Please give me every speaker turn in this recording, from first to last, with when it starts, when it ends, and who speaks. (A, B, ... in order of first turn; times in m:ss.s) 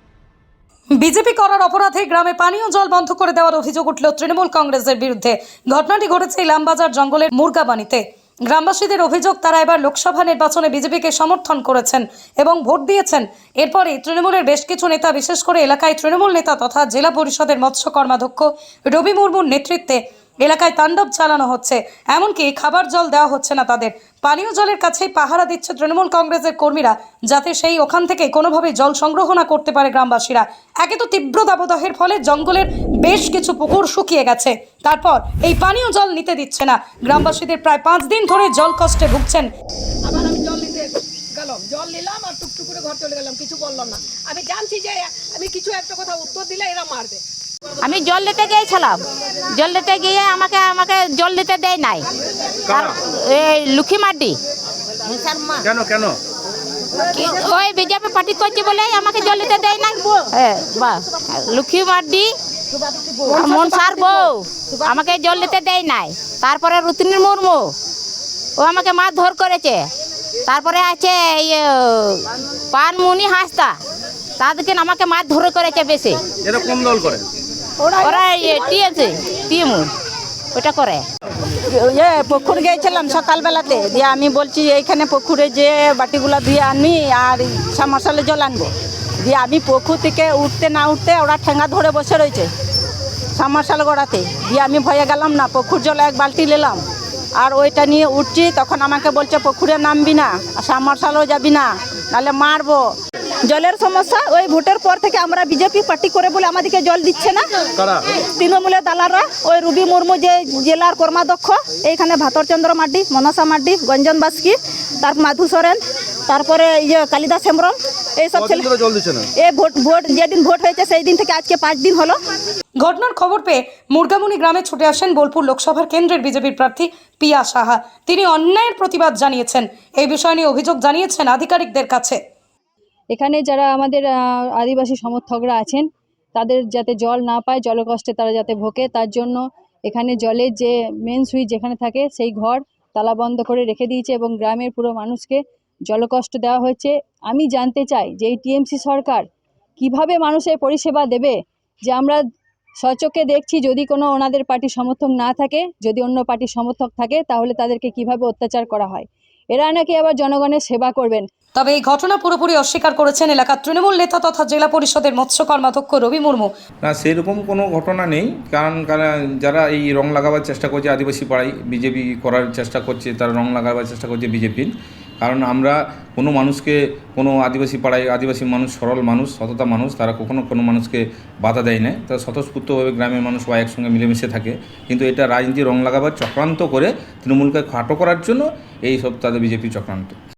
0:01.0-0:39.5 A
0:40.0-0:47.2 B
0:47.8-0:49.0 C
0:49.5-0:52.0 C
0:52.7-0:54.4 C
0:55.6-0:56.2 D
0:57.1-1:02.3 C
1:03.3-1:07.7 C
1:08.6-1:09.9 C
1:10.5-1:12.2 C
1:12.7-1:13.8 C
1:14.4-1:16.2 C
1:16.5-1:17.2 D
1:17.8-1:18.8 E
1:18.0-1:19.9 C
1:20.6-1:21.0 C
1:21.7-1:28.7 E
1:29.2-1:32.5 E
1:33.4-1:36.8 E
1:37.4-1:42.9 E
1:43.4-1:47.4 E
1:48.2-1:58.7 E
1:58.4-1:59.3 D
1:59.4-2:02.2 E
2:02.8-2:12.2 A
2:13.1-2:29.2 F
2:29.8-2:32.2 F
2:32.8-2:41.3 F
2:41.6-2:46.5 A
2:46.8-2:54.7 G
2:55.2-3:10.2 G